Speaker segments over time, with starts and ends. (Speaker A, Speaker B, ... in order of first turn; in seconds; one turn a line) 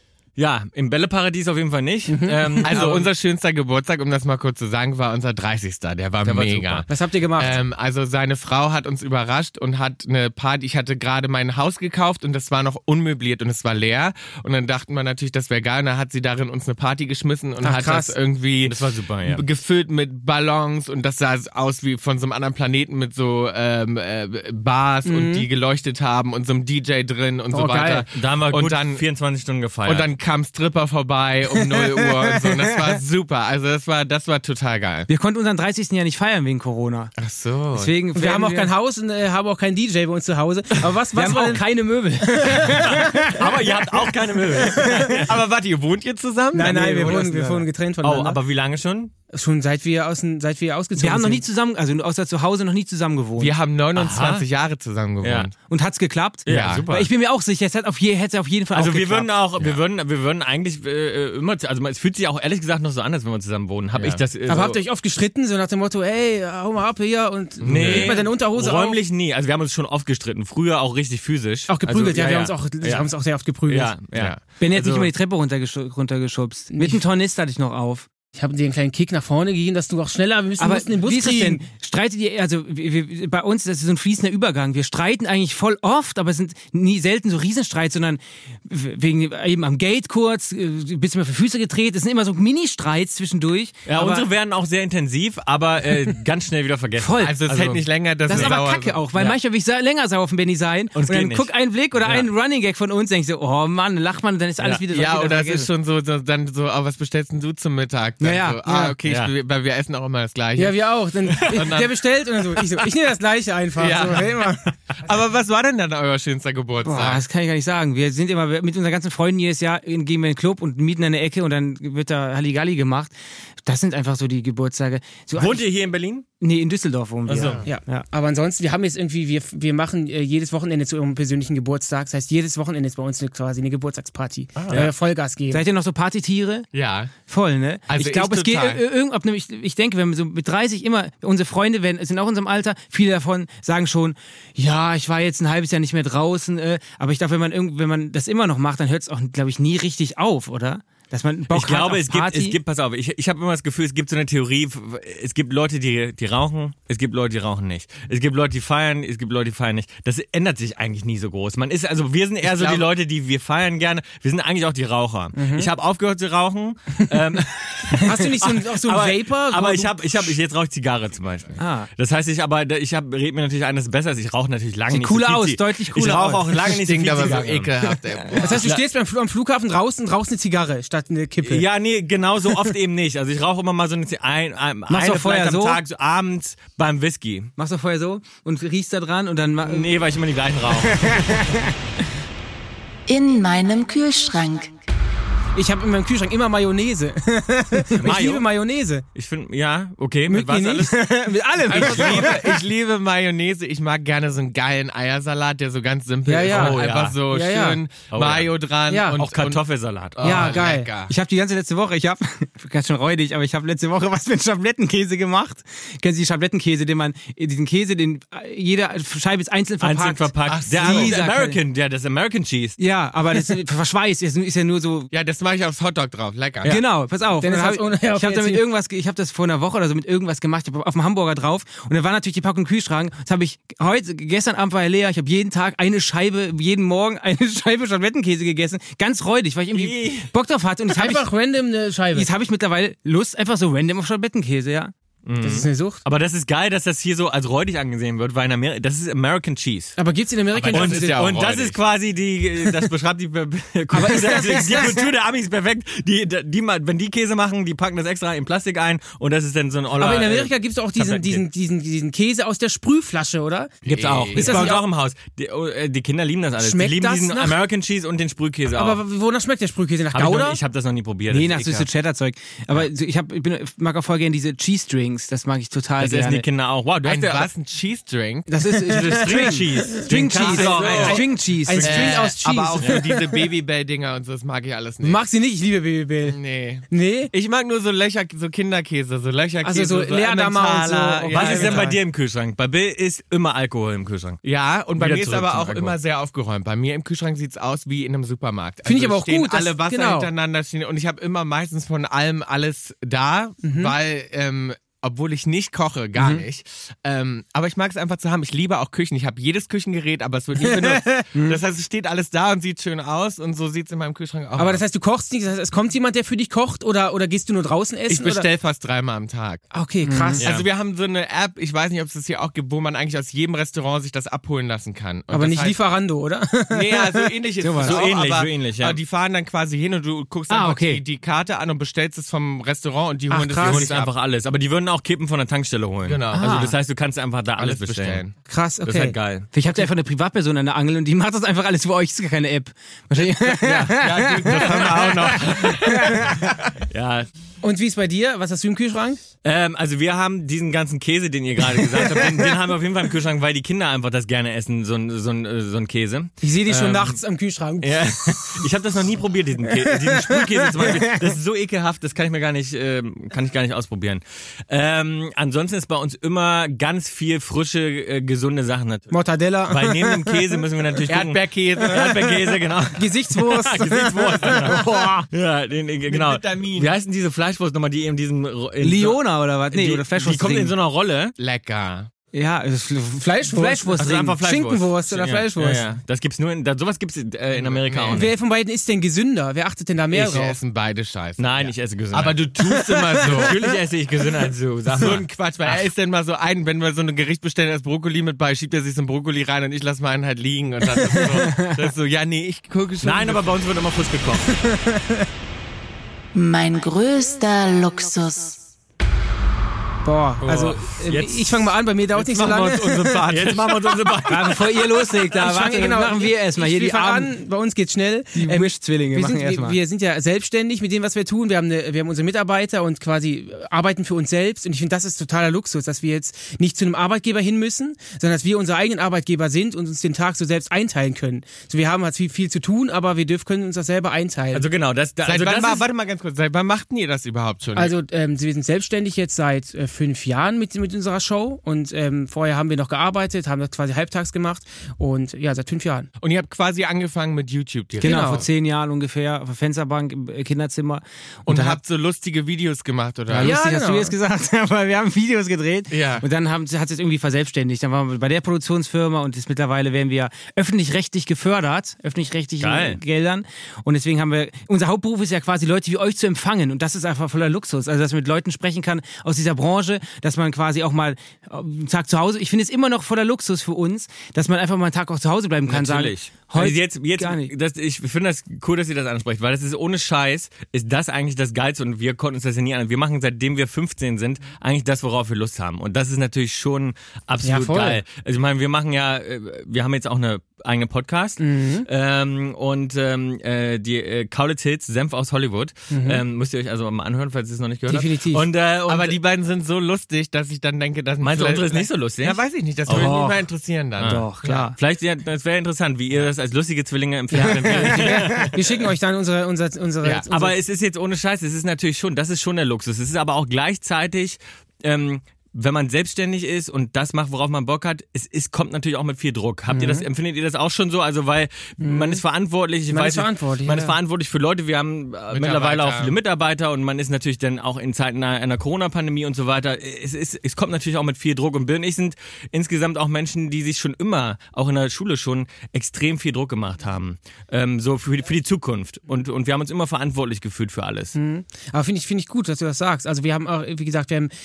Speaker A: 0.4-3.1
Speaker B: 2.1-2.7
Speaker C: 2.6-29.0
Speaker A: 6.2-6.9
Speaker B: 6.9-7.6
Speaker B: 17.6-18.1
Speaker A: 18.6-19.4
Speaker B: 25.1-25.5
Speaker B: 27.5-28.0
Speaker A: 28.1-30.1
Speaker C: 29.9-35.1
Speaker D: 35.1-37.1
Speaker C: 37.2-37.9
Speaker D: 37.8-38.7
Speaker B: 38.1-41.7
Speaker D: 41.1-43.3
Speaker B: 42.4-43.4
Speaker A: 43.3-45.4
Speaker C: 45.2-47.2
Speaker B: 46.5-48.4
Speaker D: 47.0-47.7
Speaker A: 48.0-49.1
Speaker B: 49.3-51.4
Speaker D: 51.0-53.5
Speaker C: 53.4-55.5
Speaker A: 54.0-54.5
Speaker A: 55.2-55.5
Speaker D: 55.7-59.3
Speaker C: 56.5-56.9
Speaker A: 56.5-57.1
Speaker A: 58.7-64.8
Speaker C: 63.9-64.2
Speaker B: 64.5-69.0
Speaker C: 67.6-68.2
Speaker A: 67.7-75.1
Speaker B: 71.7-73.9
Speaker C: 74.1-74.4
Speaker D: 74.6-78.1
Speaker B: 76.7-77.0
Speaker B: 78.3-81.6
Speaker D: 80.6-94.3
Speaker A: 93.9-98.6
Speaker D: 97.0-97.4
Speaker C: 97.2-99.0
Speaker D: 98.3-105.7
Speaker A: 101.0-101.5
Speaker A: 102.0-102.3
Speaker C: 104.9-112.0
Speaker D: 108.2-108.6
Speaker B: 108.7-108.9
Speaker A: 109.0-109.3
Speaker B: 110.6-114.7
Speaker A: 111.4-111.7
Speaker C: 113.8-114.4
Speaker C: 115.0-117.2
Speaker D: 116.8-123.1
Speaker D: 123.6-125.7
Speaker A: 125.3-126.3
Speaker D: 126.4-128.1
Speaker C: 127.3-127.7
Speaker A: 127.3-127.6
Speaker B: 127.7-135.7
Speaker C: 134.6-134.8
Speaker D: 135.5-136.7
Speaker C: 136.7-137.1
Speaker D: 137.3-152.6
Speaker C: 137.9-138.8
Speaker A: 151.5-177.7
Speaker C: 162.4-162.9
Speaker B: 165.4-165.7
Speaker B: 168.0-170.4
Speaker D: 171.6-171.9
Speaker D: 174.9-176.7
Speaker C: 176.7-178.7
Speaker A: 178.4-178.8
Speaker B: 178.4-181.6
Speaker A: 181.4-187.5
Speaker D: 184.9-185.8
Speaker D: 187.6-189.9
Speaker A: 189.6-191.4
Speaker D: 190.9-191.7
Speaker E: 193.1-194.7
Speaker B: 195.6-199.0
Speaker A: 198.0-198.4
Speaker A: 199.2-202.3
Speaker B: 200.3-200.9
Speaker D: 201.0-202.1
Speaker C: 201.7-209.6
Speaker B: 201.8-202.1
Speaker B: 206.3-207.8
Speaker A: 206.5-207.2
Speaker A: 208.1-208.5
Speaker B: 208.9-209.2
Speaker A: 209.2-210.6
Speaker C: 210.1-211.1
Speaker B: 210.2-210.9
Speaker D: 210.2-221.6
Speaker A: 219.8-222.8
Speaker C: 220.5-221.2
Speaker D: 222.8-225.1
Speaker C: 225.1-226.8
Speaker D: 226.7-241.2
Speaker B: 227.4-228.6
Speaker A: 239.7-240.3
Speaker B: 240.9-242.3
Speaker D: 242.2-244.9
Speaker A: 245.2-250.0
Speaker B: 245.4-246.0
Speaker B: 250.0-251.2
Speaker C: 250.5-251.8
Speaker A: 250.7-261.4
Speaker B: 253.9-255.1
Speaker B: 260.0-263.7
Speaker C: 263.8-264.7
Speaker A: 263.9-269.0
Speaker B: 264.4-264.8
Speaker B: 266.6-267.6
Speaker B: 268.7-270.6
Speaker A: 270.1-271.9
Speaker D: 271.3-276.4
Speaker A: 276.0-277.5
Speaker C: 277.0-278.5
Speaker D: 278.5-282.2
Speaker B: 278.8-283.2
Speaker A: 278.9-281.2
Speaker C: 280.4-285.2
Speaker B: 285.0-286.4
Speaker C: 286.2-292.0
Speaker B: 286.9-287.3
Speaker B: 289.6-292.0
Speaker A: 291.3-294.4
Speaker C: 294.4-314.8
Speaker A: 295.0-295.9
Speaker B: 298.9-300.3
Speaker B: 303.6-303.9
Speaker D: 306.2-306.4
Speaker B: 310.6-311.1
Speaker B: 314.6-318.5
Speaker C: 318.1-319.6
Speaker B: 319.7-320.4
Speaker D: 320.0-320.4
Speaker C: 320.4-325.8
Speaker A: 320.4-320.6
Speaker B: 325.3-327.2
Speaker C: 326.7-334.1
Speaker D: 327.6-328.0
Speaker A: 327.8-329.0
Speaker D: 330.5-331.0
Speaker B: 333.3-333.9
Speaker A: 333.6-338.2
Speaker C: 336.1-336.6
Speaker D: 336.3-336.8
Speaker C: 337.6-338.4
Speaker B: 338.5-339.1
Speaker A: 338.8-339.5
Speaker D: 339.5-345.1
Speaker A: 343.6-344.6
Speaker C: 343.7-346.7
Speaker D: 345.8-346.4
Speaker A: 346.9-347.3
Speaker B: 347.6-349.2
Speaker A: 349.4-357.2
Speaker B: 356.4-358.6
Speaker A: 357.8-369.1
Speaker B: 360.3-361.1
Speaker B: 369.1-370.4
Speaker A: 369.7-381.4
Speaker C: 371.1-372.2
Speaker B: 372.9-375.3
Speaker C: 376.1-376.9
Speaker D: 378.8-380.7
Speaker C: 381.4-382.1
Speaker D: 382.3-384.4
Speaker B: 383.2-385.8
Speaker A: 384.0-388.3
Speaker C: 387.5-388.3
Speaker B: 388.1-390.6
Speaker C: 390.1-393.6
Speaker A: 391.4-392.4
Speaker B: 392.7-393.3
Speaker A: 393.2-395.9
Speaker C: 394.9-403.5
Speaker A: 403.0-404.5
Speaker B: 404.6-405.2
Speaker E: 406.3-408.6
Speaker B: 410.0-413.3
Speaker A: 410.4-415.0
Speaker C: 412.2-413.7
Speaker D: 414.3-417.4
Speaker B: 415.3-434.7
Speaker D: 418.4-419.8
Speaker A: 434.5-435.9
Speaker C: 435.2-437.9
Speaker B: 437.8-446.1
Speaker C: 446.2-448.3
Speaker B: 448.0-448.5
Speaker D: 448.0-451.8
Speaker C: 451.5-453.5
Speaker D: 453.3-477.5
Speaker B: 453.4-454.1
Speaker C: 455.9-456.3
Speaker A: 462.6-463.0
Speaker A: 475.7-499.2
Speaker B: 487.4-488.0
Speaker B: 491.4-491.9
Speaker B: 495.9-496.2
Speaker B: 497.9-498.4
Speaker C: 498.9-504.7
Speaker A: 501.2-503.4
Speaker A: 504.0-508.9
Speaker D: 504.0-504.8
Speaker B: 507.3-510.6
Speaker C: 507.8-508.1
Speaker A: 510.3-541.2
Speaker B: 519.7-520.0
Speaker B: 521.8-522.2
Speaker B: 522.9-524.0
Speaker C: 525.3-526.1
Speaker B: 541.1-544.3